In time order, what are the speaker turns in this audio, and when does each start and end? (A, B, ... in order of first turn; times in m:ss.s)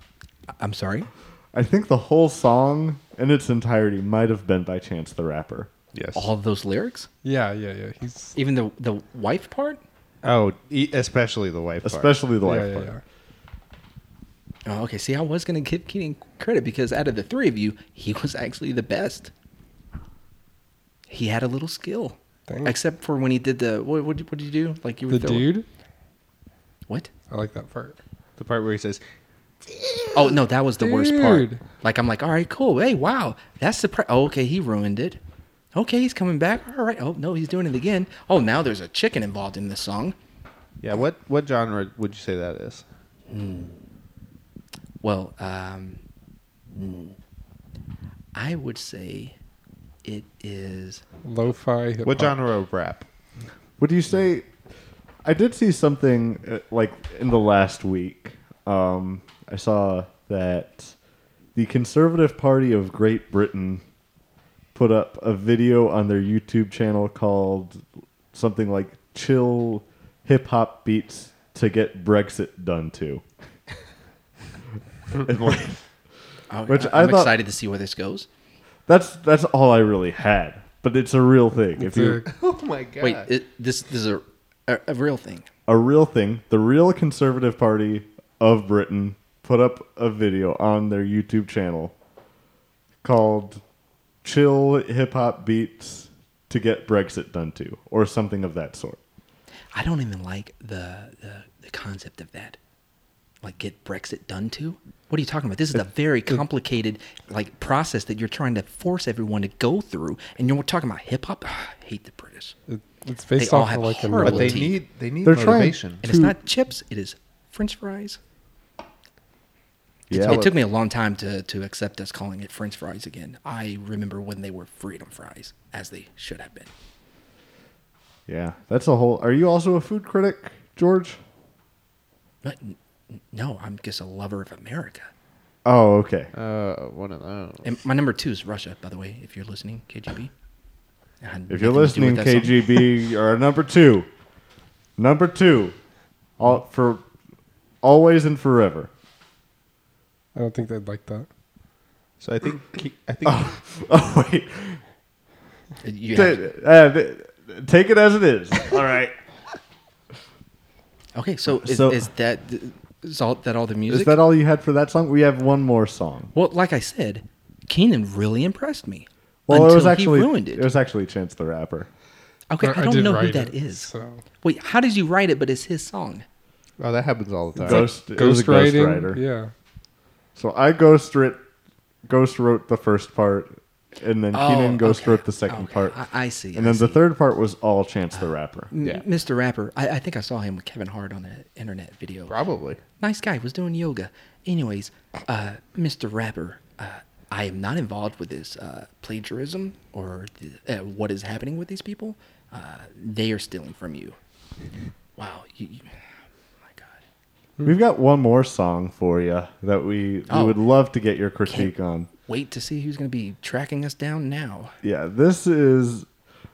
0:00.6-0:01.1 A
0:01.5-0:05.7 B
0:05.9-0:06.3 C
0:06.1-0:07.1 A
0:07.2-0:08.4 D
0:08.4-0:09.8 A
0:10.2-0:12.1 C
0:11.8-0:13.0 B
0:12.4-0:13.0 D
0:14.6-0:19.3 A
0:21.1-0:25.5 A
0:22.5-0:22.8 D
0:25.1-0:25.6 D
0:27.3-0:28.0 D
0:28.4-0:29.0 C
0:29.8-0:30.2 C
0:30.1-0:35.2 A
0:30.8-0:31.6 D
0:35.7-0:40.2 A
0:40.8-0:42.8 C
0:43.3-0:43.8 A
0:45.0-0:46.0 A
0:46.7-0:47.2 A
0:48.3-0:49.3 A
0:50.0-0:51.0 A
0:51.2-0:52.4 D
0:52.0-0:53.0 C
0:53.8-0:54.5 B
0:55.2-1:00.9 B
1:01.5-1:03.8 B
1:04.7-1:07.8 B
1:08.3-1:13.2 B
1:15.2-1:15.8 B
1:16.5-1:18.3 A
1:16.7-1:17.4 B
1:18.9-1:22.2 B
1:21.8-1:22.2 D
1:22.2-1:23.3 C
1:23.0-1:25.5 A
1:25.7-1:31.9 B
1:33.0-1:33.6 B
1:34.2-1:39.0 B
1:39.7-1:42.6 A
1:43.4-1:52.5 A
1:52.7-1:54.6 D
1:53.4-1:54.8 A
1:54.2-1:56.0 C
1:55.2-1:56.4 B
1:56.0-1:58.2 A
2:00.1-2:00.5 B
2:00.1-2:00.6 C
2:00.1-2:06.7 A
2:08.3-2:11.2 B
2:12.4-2:15.1 A
2:15.6-2:16.3 B
2:16.3-2:17.7 C
2:17.6-2:20.3 A
2:21.2-2:22.9 A
2:21.5-2:24.1 B
2:25.0-2:25.7 B
2:26.4-2:27.0 B
2:27.8-2:28.9 B
2:30.3-2:31.3 D
2:32.2-2:33.5 C
2:33.2-2:34.8 B
2:35.8-2:36.4 A
2:36.1-2:39.1 B
2:41.1-2:44.2 A
2:41.5-2:42.1 B
2:43.9-2:46.3 B
2:46.3-2:50.7 A
2:49.5-2:51.9 B
2:52.5-2:53.9 A
2:52.6-2:54.2 D
2:54.4-2:56.2 A
2:56.8-2:57.9 C
2:57.6-2:59.5 D
2:57.6-2:59.2 B
3:00.4-3:01.4 B
3:02.0-3:06.0 B
3:04.3-3:07.0 A
3:06.5-3:08.7 B
3:08.1-3:12.3 A
3:12.3-3:12.8 C
3:13.0-3:24.2 A
3:25.2-3:25.9 A
3:26.6-3:27.0 A
3:27.6-3:32.1 B
3:30.3-3:30.6 A
3:31.4-3:31.7 A
3:32.3-3:34.7 A
3:34.8-3:36.0 B